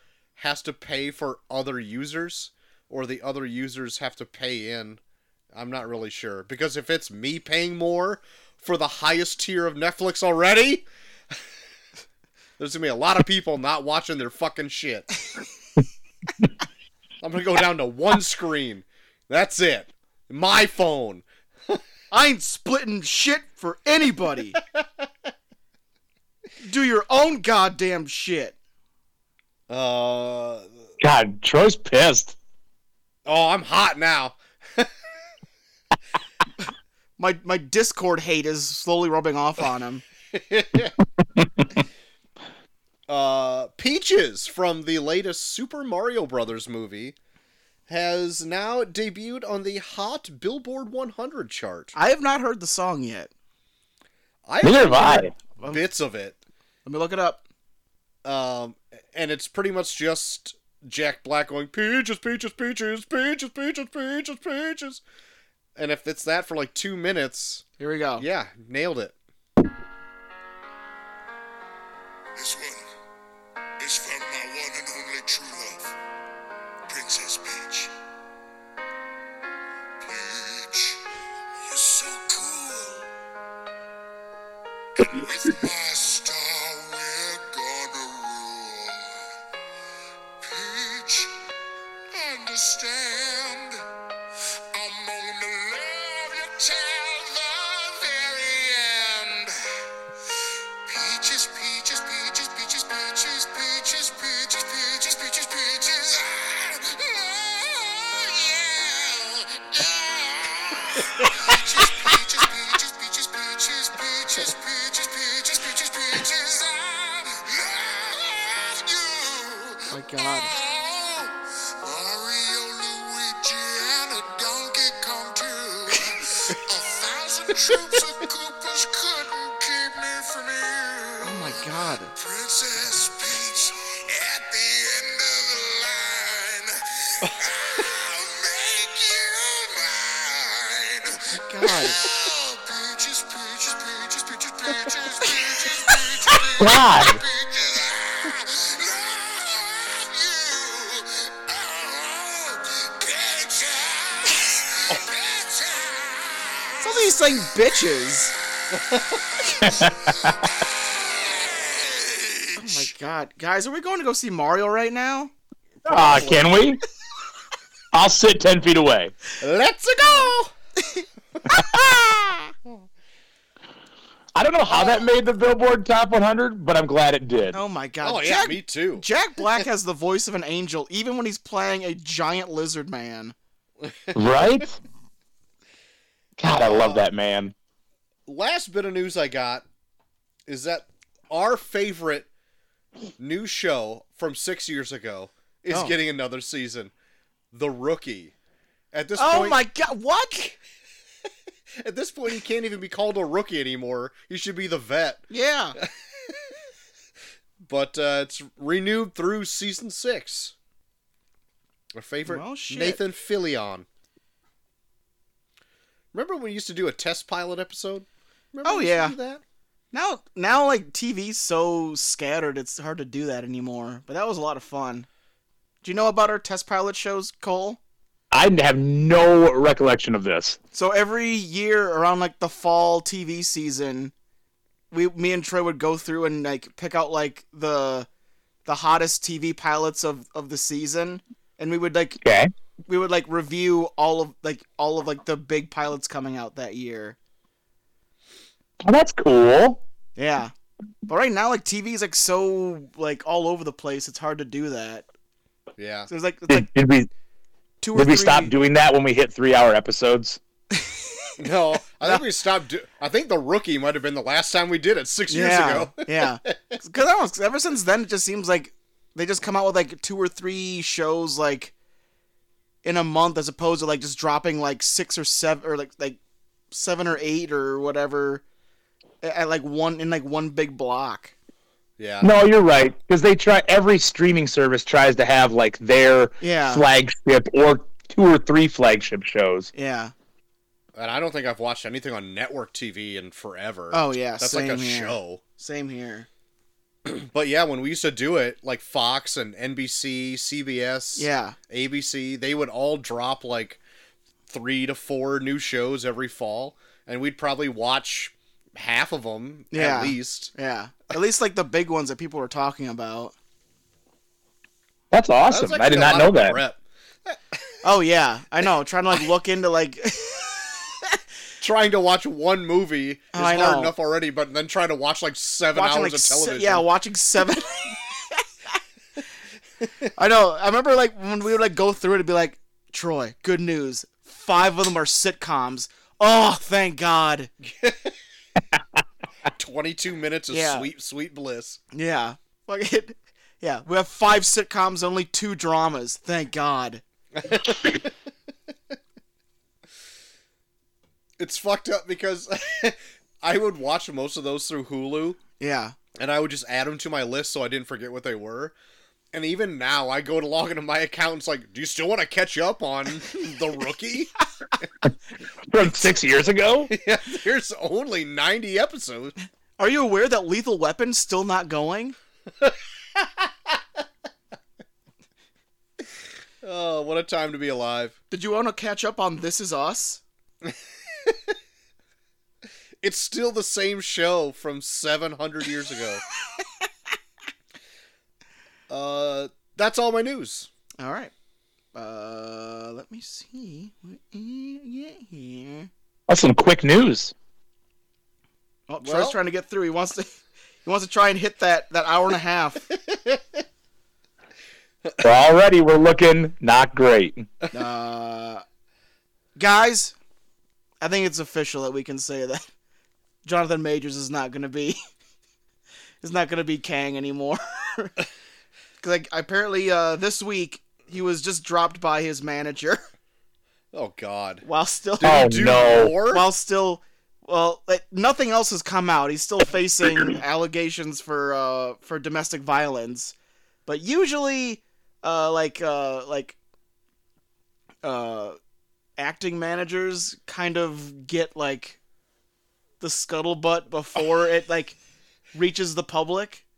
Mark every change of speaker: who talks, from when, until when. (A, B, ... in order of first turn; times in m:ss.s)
0:00.4-0:05.0 A
0:05.5-0:10.9 A
0:12.6-0:15.1 A
0:17.2-0:21.8 A
0:22.1-0:24.6 B
0:24.5-0:24.8 A
0:26.6-0:28.6 B
0:29.7-0:30.7 A
0:31.0-0:32.4 C
0:33.3-0:34.9 A
0:37.2-0:40.0 B
0:40.3-0:41.0 A
0:43.1-0:47.2 A
0:47.9-0:52.0 A
0:52.0-0:53.3 B
0:54.4-0:56.4 A
0:54.6-0:55.3 C
0:56.9-0:57.4 B
0:58.2-1:05.0 A
1:05.8-1:07.7 A
1:07.8-1:08.2 B
1:08.2-1:09.2 A
1:12.4-1:12.9 D
1:13.8-1:16.0 D
1:16.9-1:17.9 D
1:20.0-1:21.0 D
1:21.6-1:23.1 D
1:25.0-1:29.3 D
1:30.4-1:31.4 D
1:32.1-1:33.8 D
1:34.7-1:39.9 D
1:40.9-2:37.1 D
1:59.9-2:00.5 B
2:11.2-2:12.1 B
2:21.4-2:22.0 B
2:26.6-2:27.2 C
2:36.8-2:38.3 B
2:38.7-2:39.2 A
2:39.4-2:42.9 D
2:39.6-2:40.1 C
2:42.6-2:45.3 B
2:45.8-2:46.6 A
2:45.9-2:46.8 C
2:47.9-2:49.1 C
2:49.4-2:50.5 A
2:50.8-2:52.5 B
2:54.4-2:57.6 C
2:57.5-3:03.4 B
2:58.0-2:59.1 A
3:03.8-3:04.5 A
3:04.1-3:04.8 C
3:06.4-3:07.5 C
3:06.5-3:07.1 A
3:08.3-3:09.7 A
3:10.5-3:12.3 A
3:13.2-3:16.9 A
3:15.7-3:16.0 B
3:17.5-3:18.3 A
3:18.9-3:19.6 A
3:19.2-3:20.6 B
3:21.8-3:25.2 A
3:25.3-3:25.8 B
3:25.8-3:26.3 A
3:27.6-3:30.6 A
3:31.9-3:33.9 A
3:32.3-3:33.0 B
3:36.1-3:39.4 A
3:38.6-3:39.2 B
3:39.9-3:45.1 B
3:45.8-3:47.8 B
3:48.3-3:50.6 C
3:50.7-3:54.1 B
3:54.9-3:58.1 B
3:58.7-4:02.2 B
4:02.2-4:02.5 C
4:02.9-4:07.2 B
4:08.8-4:09.8 C
4:10.2-4:10.5 B
4:11.1-4:15.1 B
4:15.8-4:16.1 A
4:16.1-4:16.7 B
4:16.5-4:17.1 C
4:17.8-4:18.5 B
4:18.0-4:20.4 C
4:20.7-4:21.3 B
4:21.4-4:26.8 A
4:25.3-4:31.7 B
4:32.8-4:36.2 B
4:36.7-4:38.4 B
4:39.2-4:41.3 B
4:42.0-4:42.3 A
4:42.2-4:49.7 C
4:46.4-4:46.8 B
4:49.7-4:50.1 B
4:51.0-4:55.4 A
4:53.9-4:56.3 B
4:57.0-5:03.8 A
5:01.2-5:01.6 B
5:04.5-5:10.5 A
5:09.7-5:13.4 B
5:15.1-5:16.6 C
5:15.5-5:17.6 A
5:17.8-5:21.2 B
5:21.6-5:26.9 A
5:23.3-5:23.9 B
5:25.7-5:28.4 B
5:30.2-5:37.5 B
5:37.6-5:38.2 A
5:39.5-5:41.8 A
5:40.5-5:40.9 B
5:41.9-5:47.0 B
5:47.4-5:48.1 A
5:51.4-5:55.4 A
5:55.6-5:56.0 B
5:56.2-5:58.8 A
5:59.3-6:04.3 A
6:05.7-6:06.9 C
6:06.9-6:09.4 A
6:09.8-6:12.2 B
6:12.6-6:13.7 A
6:16.6-6:18.2 A
6:18.3-6:20.2 B
6:20.6-6:21.5 A
6:23.0-6:26.2 A
6:28.9-6:30.7 A
6:31.0-6:31.3 B
6:32.0-6:35.9 B
6:36.3-6:37.3 C
6:38.9-6:42.9 B
6:39.0-6:39.4 A
6:43.1-6:43.4 A
6:45.2-6:47.5 C
6:47.7-6:48.6 B
6:49.6-6:50.2 B
6:51.0-6:52.6 B
6:53.4-6:55.0 B
6:56.2-6:58.1 B
6:59.0-7:03.0 B
7:03.9-7:04.6 A
7:04.6-7:05.4 B
7:05.2-7:06.5 A
7:05.2-7:06.2 C
7:06.3-7:13.3 B
7:13.9-7:16.6 B
7:18.0-7:18.6 B
7:19.2-7:22.0 B
7:23.0-7:25.0 B
7:25.5-7:26.6 B